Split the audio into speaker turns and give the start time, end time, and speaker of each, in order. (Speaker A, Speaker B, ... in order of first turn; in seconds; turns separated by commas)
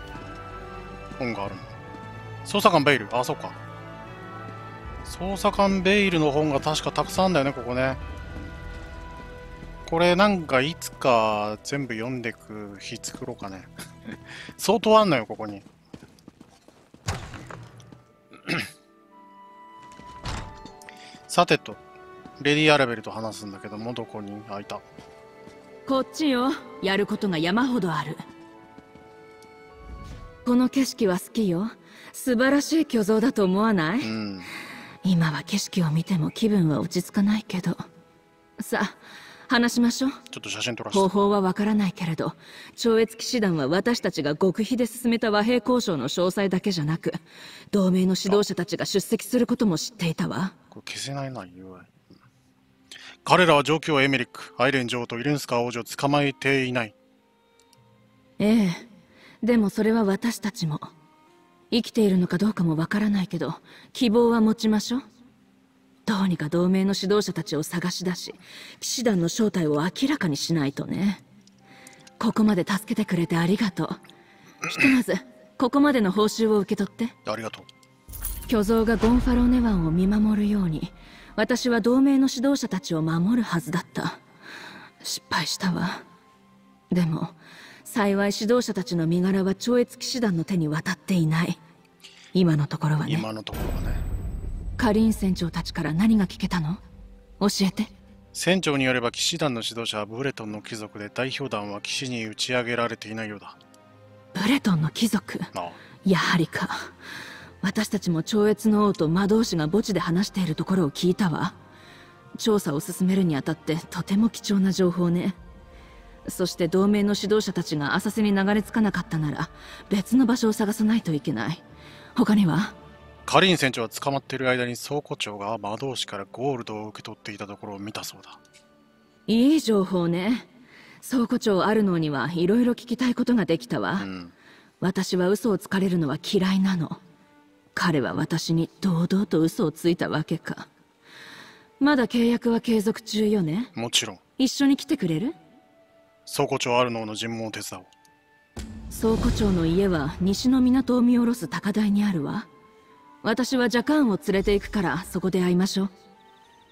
Speaker A: 1.2-1.7, Speaker A: 2.4-3.6, Speaker A: 5.0-8.0, Speaker A: 9.8-13.7, Speaker A: 14.6-15.7, Speaker A: 21.3-21.8, Speaker A: 22.4-24.8, Speaker B: 25.9-28.2, Speaker B: 30.4-34.1, Speaker A: 34.0-34.5, Speaker B: 35.0-37.8, Speaker B: 38.6-40.2, Speaker A: 40.3-41.1, Speaker B: 40.9-47.2, Speaker B: 47.7-50.5, Speaker A: 50.7-52.1, Speaker A: 53.2-57.0, Speaker B: 58.4-58.9, Speaker B: 59.4-60.9, Speaker B: 61.7-65.0, Speaker B: 66.0-71.2, Speaker B: 72.2-74.0, Speaker B: 74.7-77.1, Speaker A: 77.2-77.7, Speaker B: 78.5-84.2, Speaker B: 85.0-86.0, Speaker B: 86.9-91.6, Speaker B: 92.3-93.2, Speaker A: 93.0-94.0, Speaker B: 94.8-96.8, Speaker B: 97.4-97.9, Speaker A: 98.3-103.6, Speaker B: 104.3-105.5, Speaker A: 105.5-105.8, Speaker B: 106.0-106.9, Speaker B: 107.6-111.5, Speaker B: 112.4-115.4, Speaker B: 116.2-121.6, Speaker B: 122.2-122.7, Speaker A: 123.2-128.4, Speaker B: 129.3-130.5, Speaker B: 131.0-134.1, Speaker A: 134.0-134.3, Speaker B: 134.8-137.0, Speaker B: 137.7-140.7, Speaker B: 141.8-143.7, Speaker A: 143.7-144.2, Speaker B: 144.4-145.3, Speaker A: 146.3-147.9, Speaker B: 148.9-152.5, Speaker B: 153.2-155.9